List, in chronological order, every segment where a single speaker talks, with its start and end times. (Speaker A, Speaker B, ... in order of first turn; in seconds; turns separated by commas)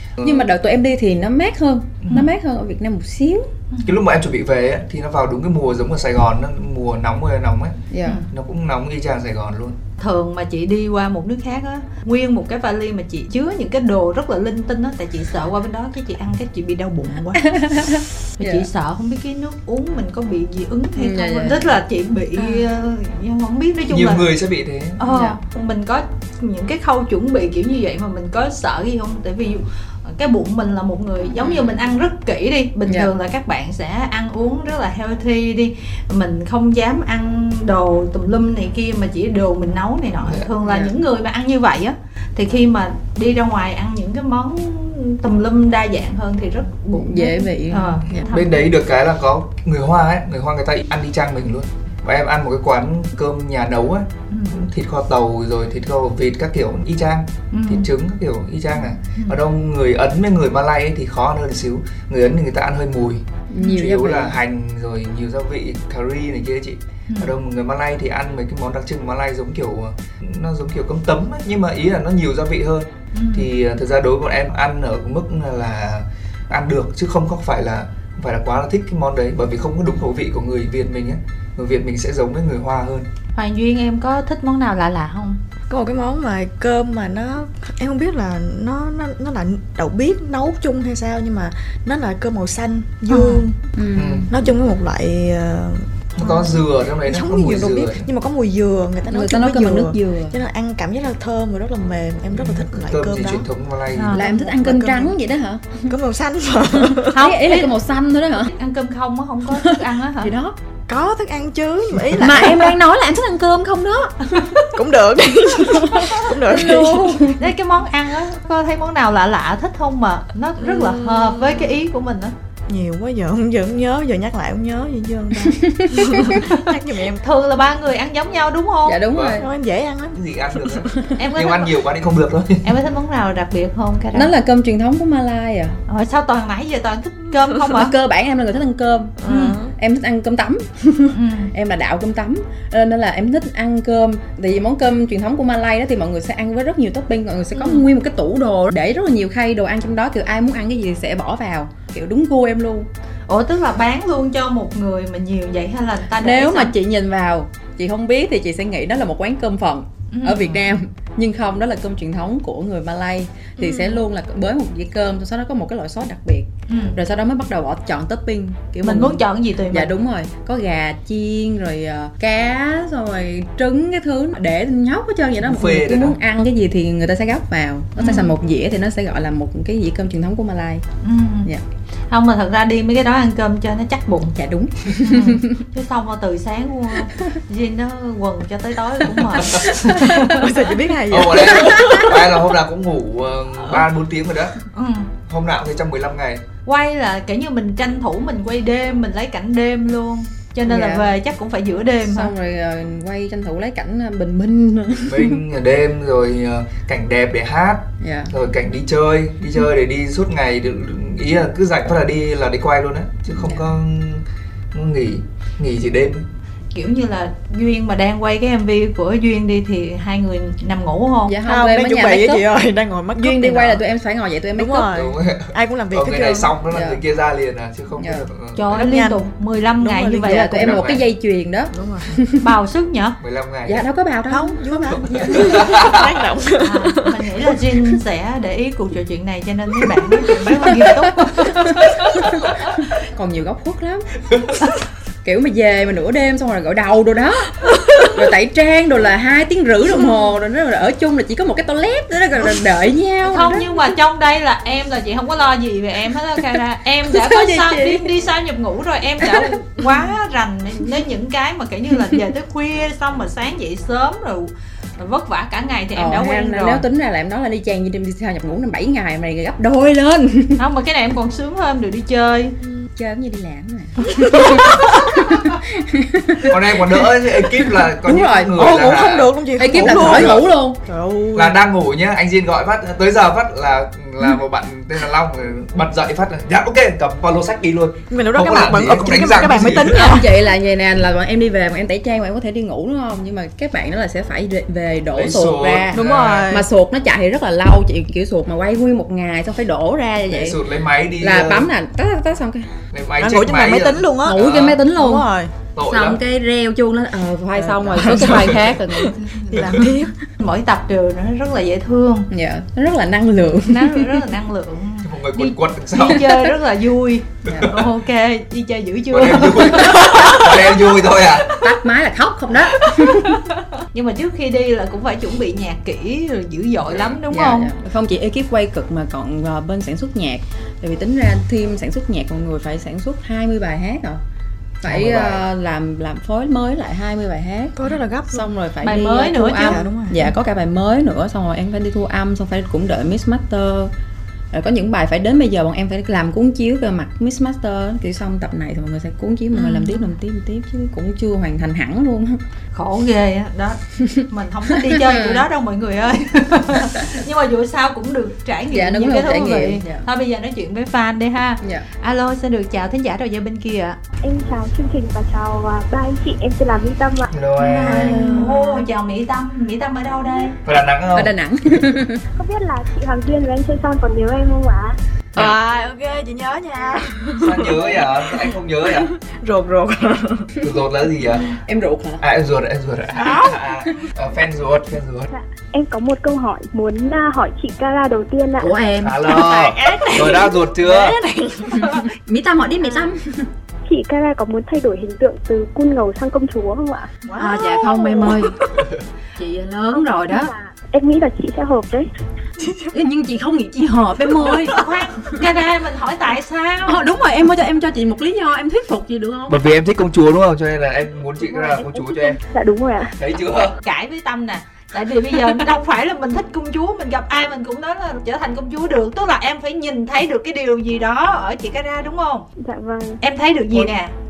Speaker A: 0.2-0.5, Speaker B: 0.2-3.5, Speaker C: 3.7-4.0, Speaker A: 3.8-7.8, Speaker B: 7.9-8.2, Speaker A: 8.3-9.8, Speaker C: 10.0-17.6, Speaker B: 17.4-18.6, Speaker C: 18.4-24.3, Speaker B: 21.0-21.7, Speaker A: 23.9-25.0, Speaker C: 25.0-48.7, Speaker B: 25.1-25.4, Speaker B: 40.6-40.9, Speaker B: 46.9-48.3, Speaker A: 48.3-83.1, Speaker C: 54.3-54.6, Speaker C: 57.5-57.9, Speaker C: 58.7-59.4, Speaker B: 63.5-64.3, Speaker C: 73.1-73.5, Speaker C: 83.3-85.4, Speaker D: 85.7-93.6, Speaker C: 93.1-93.5, Speaker B: 93.8-94.3, Speaker A: 94.0-94.3, Speaker D: 94.3-103.5, Speaker A: 96.2-98.1, Speaker B: 99.1-100.4, Speaker A: 102.3-104.2, Speaker C: 103.9-104.2, Speaker B: 104.1-105.9, Speaker D: 104.2-105.2, Speaker D: 105.9-107.2, Speaker B: 106.9-108.5, Speaker C: 107.1-107.7, Speaker C: 108.5-110.3, Speaker B: 109.5-110.5, Speaker D: 110.9-112.8, Speaker B: 112.2-114.5, Speaker D: 114.7-117.3, Speaker B: 115.7-117.4, Speaker C: 117.4-122.3, Speaker D: 120.6-121.7, Speaker D: 122.7-127.2, Speaker B: 125.5-126.4, Speaker C: 126.4-129.0, Speaker B: 128.8-129.4, Speaker A: 129.1-129.4, Speaker D: 129.3-130.9, Speaker A: 130.1-132.7, Speaker C: 131.2-131.8, Speaker C: 132.6-134.3, Speaker B: 134.1-135.8, Speaker C: 135.9-137.9, Speaker B: 137.7-139.2, Speaker D: 139.2-139.7, Speaker C: 139.2-139.6, Speaker B: 139.8-152.9, Speaker C: 141.1-141.5, Speaker C: 147.5-147.8, Speaker C: 153.3-156.7, Speaker B: 156.2-180.8, Speaker C: 160.1-160.7, Speaker D: 163.6-164.0, Speaker C: 166.7-167.0, Speaker C: 168.8-169.9, Speaker A: 175.4-176.2, Speaker C: 178.0-178.3, Speaker C: 181.0-181.5, Speaker C: 182.1-184.3, Speaker B: 184.3-185.6, Speaker C: 185.0-190.4, Speaker A: 189.3-189.7, Speaker D: 189.8-192.2, Speaker A: 191.1-194.6, Speaker B: 191.8-192.0, Speaker C: 194.7-195.1, Speaker A: 195.2-196.4, Speaker C: 196.7-202.3, Speaker B: 200.7-201.1, Speaker B: 202.0-205.4, Speaker A: 205.0-216.3, Speaker B: 208.0-208.3, Speaker B: 213.3-213.7, Speaker C: 216.7-221.3, Speaker B: 221.3-222.4, Speaker D: 221.4-223.8, Speaker B: 223.2-224.9, Speaker D: 224.6-226.5, Speaker A: 224.9-228.7, Speaker B: 226.7-227.0, Speaker B: 228.0-228.3, Speaker C: 228.6-230.6, Speaker D: 228.7-229.2, Speaker D: 229.8-230.8, Speaker B: 230.2-232.4, Speaker A: 230.5-231.0, Speaker D: 231.7-232.1, Speaker C: 232.4-233.2, Speaker A: 233.2-233.8, Speaker B: 233.7-235.7, Speaker D: 234.3-237.4, Speaker A: 235.0-236.1, Speaker C: 236.6-242.3, Speaker B: 241.4-244.1, Speaker B: 245.2-253.8, Speaker C: 253.2-266.8, Speaker B: 257.1-258.1, Speaker B: 265.9-270.6, Speaker C: 270.6-272.5, Speaker B: 272.9-276.5, Speaker D: 274.2-275.0, Speaker A: 276.4-280.4, Speaker B: 278.0-278.5, Speaker D: 278.5-281.6, Speaker B: 279.6-280.8, Speaker A: 281.3-290.1, Speaker D: 288.1-290.3, Speaker B: 289.9-300.6, Speaker A: 295.1-296.5, Speaker D: 295.9-296.6, Speaker A: 300.3-301.7, Speaker B: 301.2-302.8, Speaker A: 302.9-304.8, Speaker D: 303.2-304.4, Speaker B: 304.2-305.3, Speaker D: 304.9-305.5, Speaker A: 305.7-306.2, Speaker B: 305.9-309.9, Speaker D: 307.6-310.1, Speaker A: 308.1-308.6, Speaker A: 309.5-309.8, Speaker C: 310.4-312.3, Speaker B: 312.3-314.2, Speaker C: 313.7-321.3, Speaker A: 315.0-316.2, Speaker B: 317.4-317.7, Speaker A: 317.5-317.8, Speaker A: 319.1-321.5, Speaker B: 321.6-323.4, Speaker C: 322.8-327.7, Speaker A: 326.9-327.2, Speaker B: 327.3-334.2, Speaker B: 334.8-337.7, Speaker A: 334.8-335.4, Speaker D: 337.8-338.5, Speaker B: 338.3-343.9, Speaker C: 338.8-339.8, Speaker D: 339.6-340.3, Speaker B: 344.5-352.4, Speaker C: 349.5-350.0, Speaker C: 352.7-364.0, Speaker B: 354.0-355.4, Speaker B: 358.7-360.0, Speaker E: 364.2-367.3, Speaker A: 367.3-368.3, Speaker D: 367.6-368.8, Speaker C: 367.8-370.6, Speaker A: 370.6-371.3, Speaker B: 371.1-372.2, Speaker E: 372.4-374.9, Speaker D: 375.4-380.5, Speaker A: 377.4-379.1, Speaker A: 380.6-381.6, Speaker B: 381.6-382.2, Speaker A: 382.2-385.3, Speaker D: 383.1-383.6, Speaker E: 385.3-388.7, Speaker B: 388.6-389.2, Speaker A: 389.0-391.2, Speaker D: 389.2-392.1, Speaker B: 392.1-393.4, Speaker E: 393.9-397.1, Speaker D: 397.2-398.4, Speaker B: 397.4-398.6, Speaker B: 399.4-400.5, Speaker E: 399.9-402.1, Speaker D: 402.6-402.9, Speaker B: 402.9-405.4, Speaker C: 404.4-407.0, Speaker B: 406.8-409.6, Speaker A: 409.5-412.4, Speaker E: 411.4-413.1, Speaker A: 413.2-413.8, Speaker C: 413.8-422.5, Speaker E: 422.6-423.2, Speaker C: 423.2-424.1